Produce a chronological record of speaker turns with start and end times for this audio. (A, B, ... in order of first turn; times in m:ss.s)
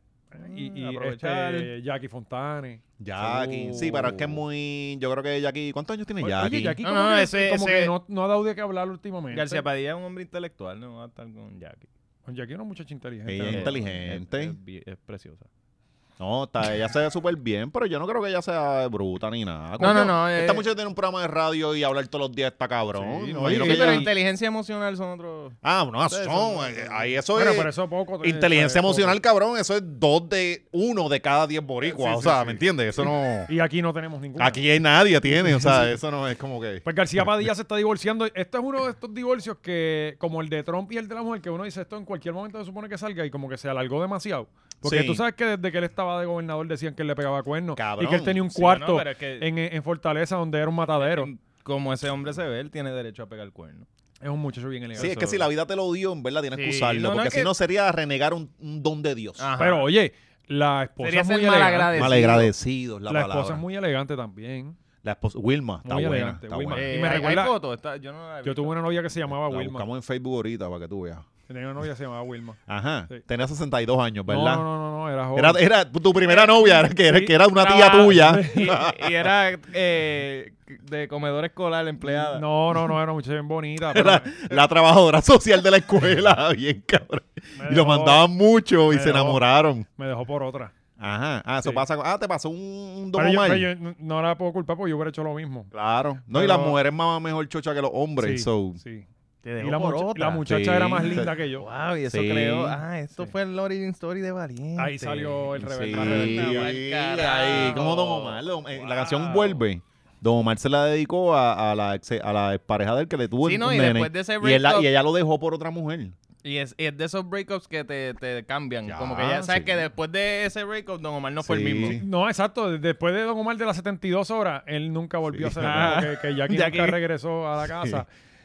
0:00.3-0:02.8 A
0:00.4-0:01.7 B
0:03.0-0:06.8 C
0:03.2-0:04.4 B
0:06.2-0:09.6 A
0:06.8-0:07.9 B
0:09.3-0:11.9 B
0:12.2-0:13.7 A
0:13.2-0:14.5 C
0:13.5-0:15.5 B
0:16.2-0:24.1 C
0:19.8-0:20.6 B
0:23.0-0:24.1 A
0:23.4-0:25.6 B
0:25.6-0:27.7 C
0:26.1-0:27.1 B
0:27.3-0:29.2 A
0:28.2-0:33.5 C
0:31.9-0:32.6 A
0:33.5-0:34.6 A
0:34.4-0:36.8 C
0:35.4-0:35.9 A
0:36.8-0:51.3 A
0:44.8-0:45.2 C
0:47.8-0:48.4 C
0:48.5-0:49.4 B
0:51.0-0:53.8 B
0:54.2-0:55.4 A
0:55.0-0:59.5 C
0:55.0-0:55.4 B
0:56.5-0:57.5 B
0:59.4-0:59.9 B
0:59.6-1:02.3 A
1:01.0-1:02.5 B
1:01.9-1:03.6 C
1:03.1-1:04.8 A
1:05.0-1:07.2 C
1:05.8-1:07.5 A
1:06.7-1:08.9 B
1:08.4-1:09.8 A
1:09.4-1:11.3 C
1:11.5-1:12.6 A
1:12.7-1:14.6 C
1:14.3-1:15.6 A
1:15.3-1:19.1 C
1:16.2-1:16.8 B
1:17.1-1:17.3 A
1:17.6-1:22.4 B
1:18.2-1:18.7 A
1:22.1-1:24.4 A
1:23.9-1:29.8 C
1:27.6-1:28.2 A
1:28.9-1:29.4 A
1:30.0-1:30.7 A
1:31.0-1:33.7 C
1:33.1-1:35.7 A
1:35.7-1:38.8 C
1:36.3-1:36.8 A
1:38.2-1:39.0 A
1:39.4-1:40.4 B
1:39.6-1:41.6 A
1:40.4-1:41.3 C
1:41.1-1:49.6 B
1:42.1-1:42.8 C
1:44.8-1:46.7 A
1:45.6-1:56.2 C
1:53.4-1:54.9 B
1:56.4-2:02.0 B
1:58.8-1:59.8 C
2:01.4-2:02.0 C
2:01.9-2:08.1 A
2:05.3-2:06.0 C
2:05.6-2:07.0 B